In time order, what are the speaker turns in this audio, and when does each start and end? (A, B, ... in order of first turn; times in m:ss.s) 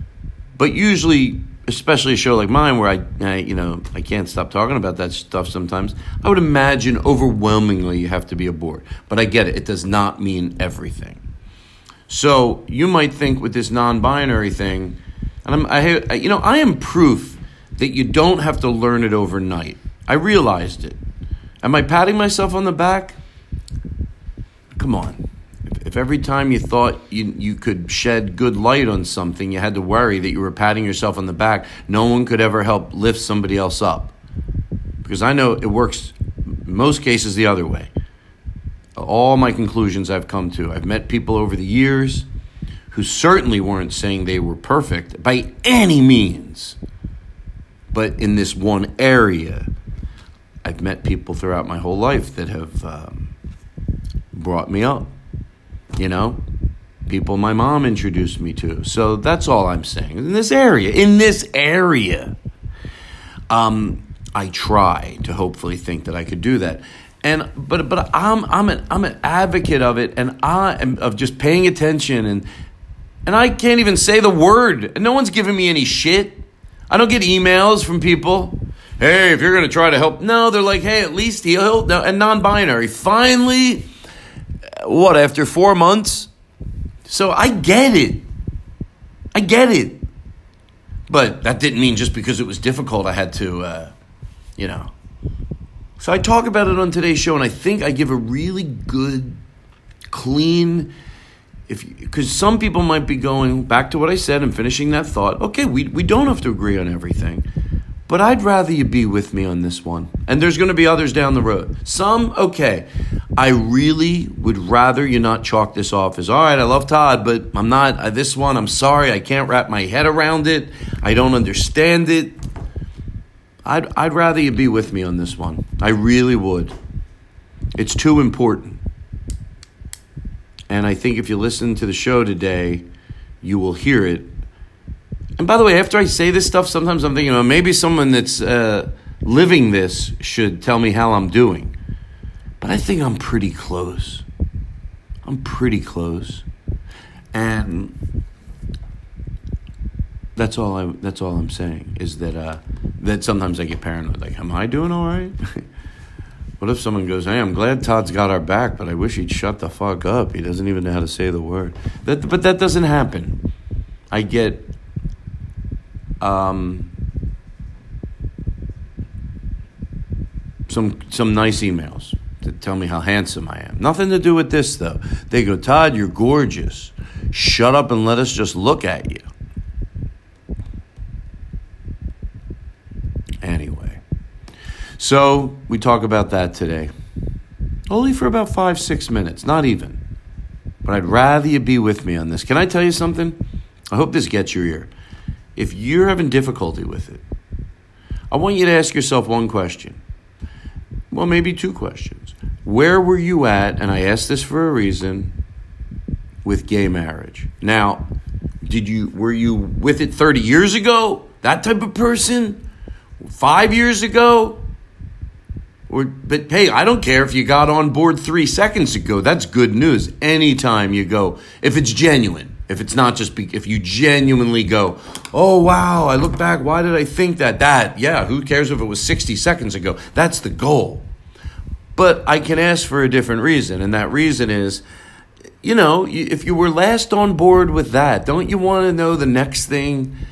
0:00.6-0:11.2 A
0:12.1-0:21.0 A
0:21.6-0:23.2 A
0:24.8-0:34.1 A
0:35.0-0:37.9 A
0:39.0-0:42.3 A
0:42.9-0:46.8 A
0:47.9-0:49.7 A
0:50.6-0:53.3 A
0:54.3-0:55.1 A
0:56.0-0:56.4 A
0:57.1-1:02.3 A
1:03.5-1:12.5 A
1:13.2-1:23.9 A
1:24.8-1:26.3 A
1:27.1-1:28.2 A
1:29.3-1:30.0 A
1:31.1-1:33.9 A
1:34.6-1:34.9 A
1:36.0-1:39.4 A
1:40.1-1:40.9 A
1:41.7-1:47.5 A
1:48.1-2:02.4 A
2:03.6-2:06.7 A
2:07.8-2:08.8 A
2:10.7-2:12.8 A
2:13.4-2:14.3 A
2:15.4-2:21.7 A
2:22.6-2:24.2 A
2:25.2-2:26.4 A
2:27.3-2:28.0 A
2:30.4-2:35.4 A
2:36.6-2:43.4 A
2:44.1-2:44.7 A
2:46.2-2:46.9 A
2:50.7-2:59.2 A
3:03.4-3:04.0 A
3:05.0-3:06.9 A
3:07.9-3:10.0 A
3:10.8-3:14.9 A
3:15.6-3:17.2 A
3:18.3-3:20.0 A
3:21.1-3:25.3 A
3:26.4-3:28.1 A
3:28.6-3:32.6 A
3:33.2-3:34.6 A
3:35.9-3:51.1 A
3:52.0-3:54.8 A
3:55.6-4:00.2 A